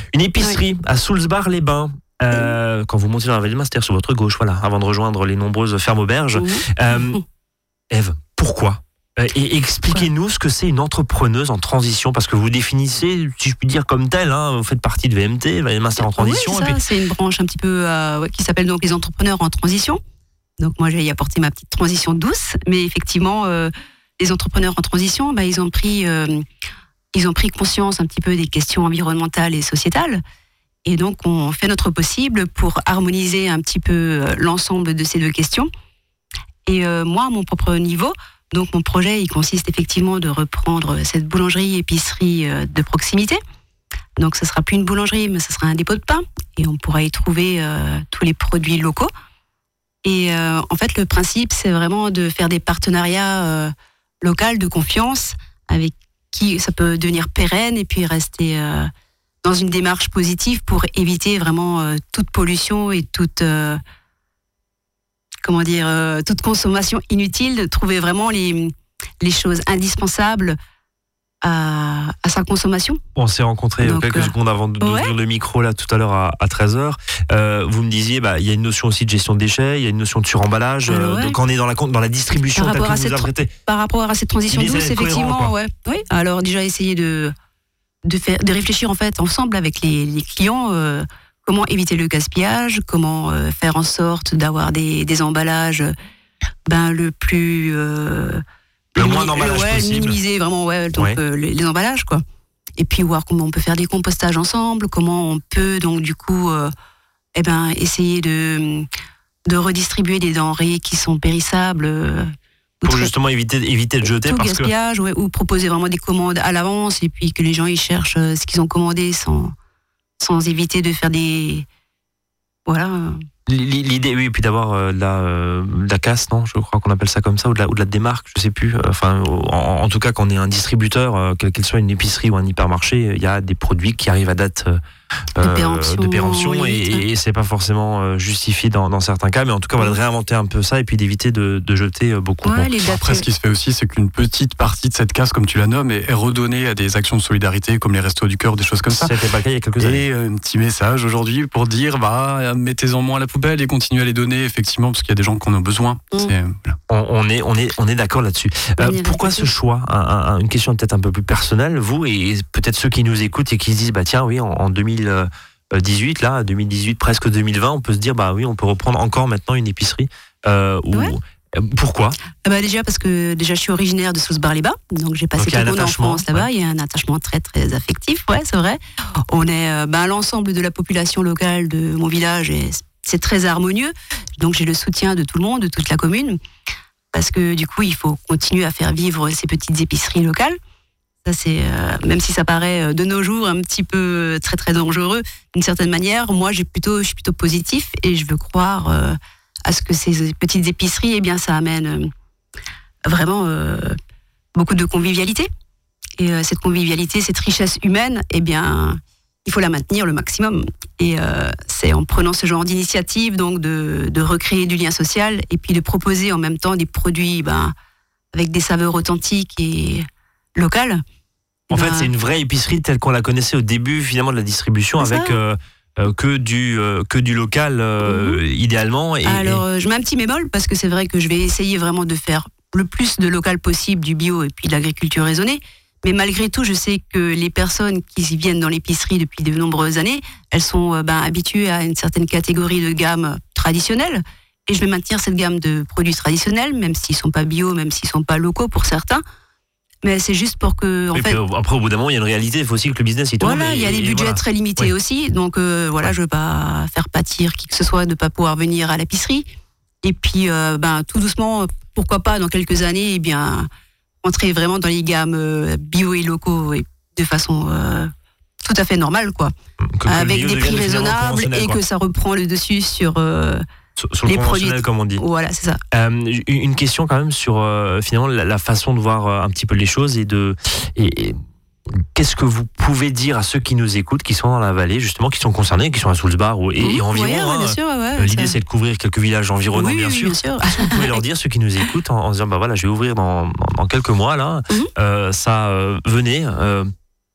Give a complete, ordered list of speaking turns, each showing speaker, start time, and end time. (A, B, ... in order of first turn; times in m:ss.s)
0:00.1-0:07.2 A
0:06.3-0:07.2 B
0:07.9-0:16.8 A
0:16.0-0:20.0 B
0:20.6-0:26.4 B
0:27.1-0:30.2 B
0:30.8-0:35.7 B
0:36.7-0:43.4 B
0:44.2-0:49.1 B
0:50.0-0:58.9 B
0:59.4-1:03.8 B
1:05.4-1:10.6 B
1:11.4-1:13.0 B
1:13.2-1:23.5 A
1:13.8-1:15.1 B
1:20.9-1:21.4 B
1:22.5-1:27.3 B
1:24.5-1:25.5 A
1:28.0-1:35.9 B
1:36.7-1:38.4 B
1:39.0-1:42.2 B
1:39.0-1:40.2 A
1:40.9-1:41.2 A
1:42.8-1:46.7 B
1:47.4-1:48.9 B
1:49.5-1:53.1 B
1:52.8-1:54.7 A
1:54.0-1:59.5 B
2:00.2-2:01.7 B
2:02.7-2:03.2 B
2:03.5-2:14.8 A
2:15.4-2:22.7 A
2:15.4-2:17.0 B
2:22.4-2:23.3 B
2:22.8-2:29.1 C
2:28.9-2:30.0 A
2:29.8-2:36.8 C
2:36.9-2:52.2 A
2:38.8-2:39.5 B
2:52.4-3:06.4 B
2:55.4-2:56.5 A
3:07.1-3:10.6 B
3:11.2-3:22.1 B
3:23.0-3:24.0 B
3:24.6-3:25.5 B
3:26.2-3:37.7 B
3:38.3-3:41.0 B
3:41.7-3:49.6 A
3:41.7-3:42.1 B
3:45.0-3:45.4 B
3:48.0-3:48.4 B
3:49.2-4:09.2 B
4:10.0-4:11.4 B
4:11.1-4:14.9 A
4:13.4-4:19.5 B
4:20.0-4:23.7 B
4:24.2-4:28.1 B
4:28.6-4:29.5 B
4:29.9-4:31.8 A
4:30.1-4:33.6 B
4:34.0-4:35.2 A
4:34.3-4:35.8 B
4:35.9-4:41.4 A
4:41.9-4:56.9 A
4:46.8-4:48.6 B
4:49.7-4:51.2 B